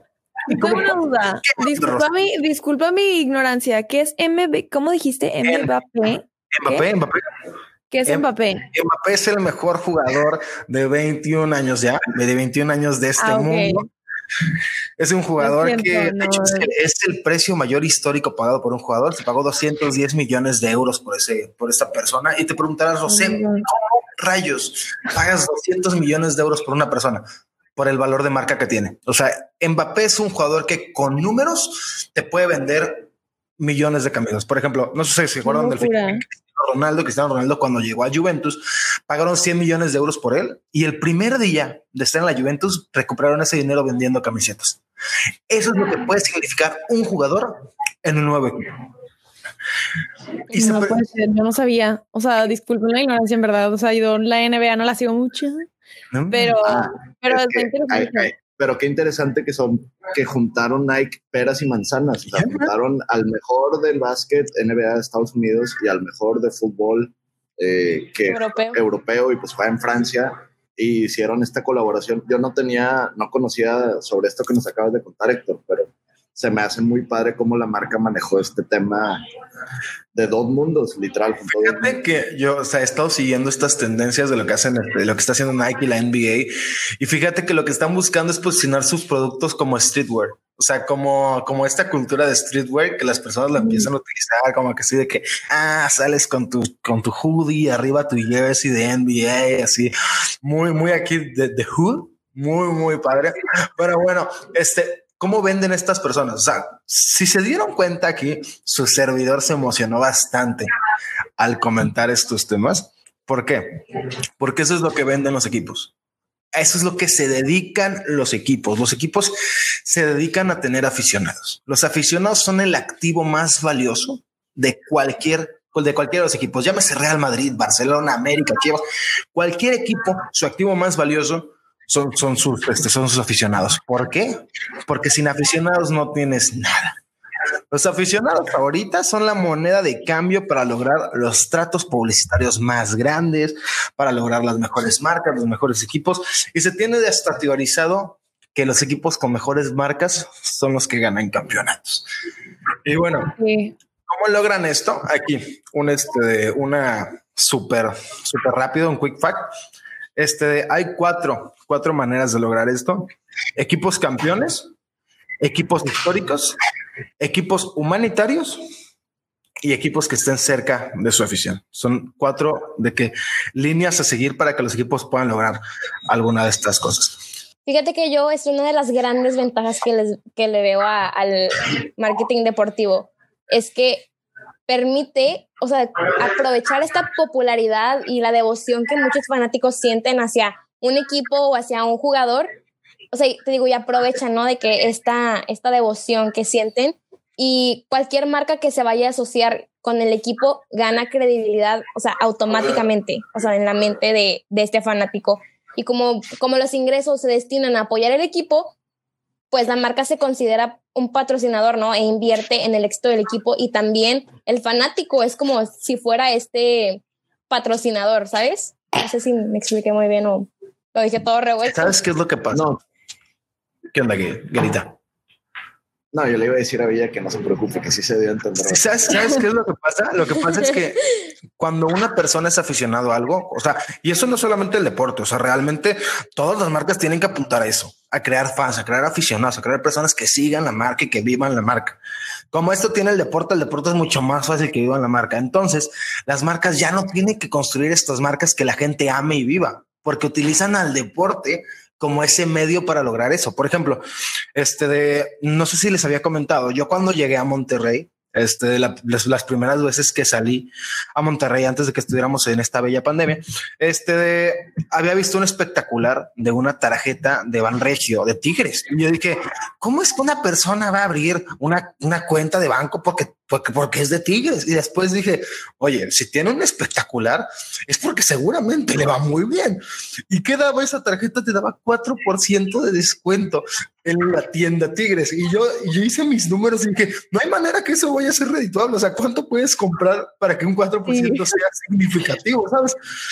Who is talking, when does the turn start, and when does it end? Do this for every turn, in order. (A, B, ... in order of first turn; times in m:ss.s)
0:00.5-0:02.1 A
0:00.5-0:06.9 B
0:05.4-0:05.7 A
0:06.5-0:07.2 A
0:07.9-0:08.7 B
0:08.1-0:13.9 A
0:13.2-0:13.8 B
0:15.0-0:27.2 A
0:15.4-0:16.7 B
0:23.1-0:23.7 B
0:27.8-0:33.1 A
0:33.6-0:44.8 A
0:35.4-0:36.2 B
0:45.5-0:48.7 A
0:50.5-0:51.0 A
0:50.5-0:55.7 B
0:56.1-0:56.7 A
0:56.3-0:58.3 B
0:56.6-1:19.2 C
1:02.3-1:02.7 A
1:08.3-1:08.8 D
1:20.1-1:22.0 C
1:21.5-1:39.9 A
1:33.6-1:33.9 B
1:40.4-1:50.7 A
1:51.4-1:53.8 A
1:54.4-1:55.9 A
1:56.5-1:59.3 A
1:59.8-2:08.8 A
2:09.3-2:17.0 A
2:17.7-2:32.0 A
2:32.8-2:33.3 A
2:33.4-2:33.7 B
2:34.1-2:39.5 A
2:40.2-2:44.7 A
2:45.4-2:46.6 A
2:47.2-2:48.6 A
2:49.6-2:57.2 A
2:57.7-3:04.1 D
3:04.7-3:12.5 D
3:13.1-3:28.7 D
3:29.5-3:41.9 D
3:41.7-3:42.7 A
3:42.5-3:42.8 C
3:43.9-3:44.9 A
3:46.1-3:49.2 C
3:48.6-3:51.0 A
3:51.6-4:02.0 A
4:02.5-4:14.0 A
4:14.6-4:53.0 A
4:51.1-4:51.4 B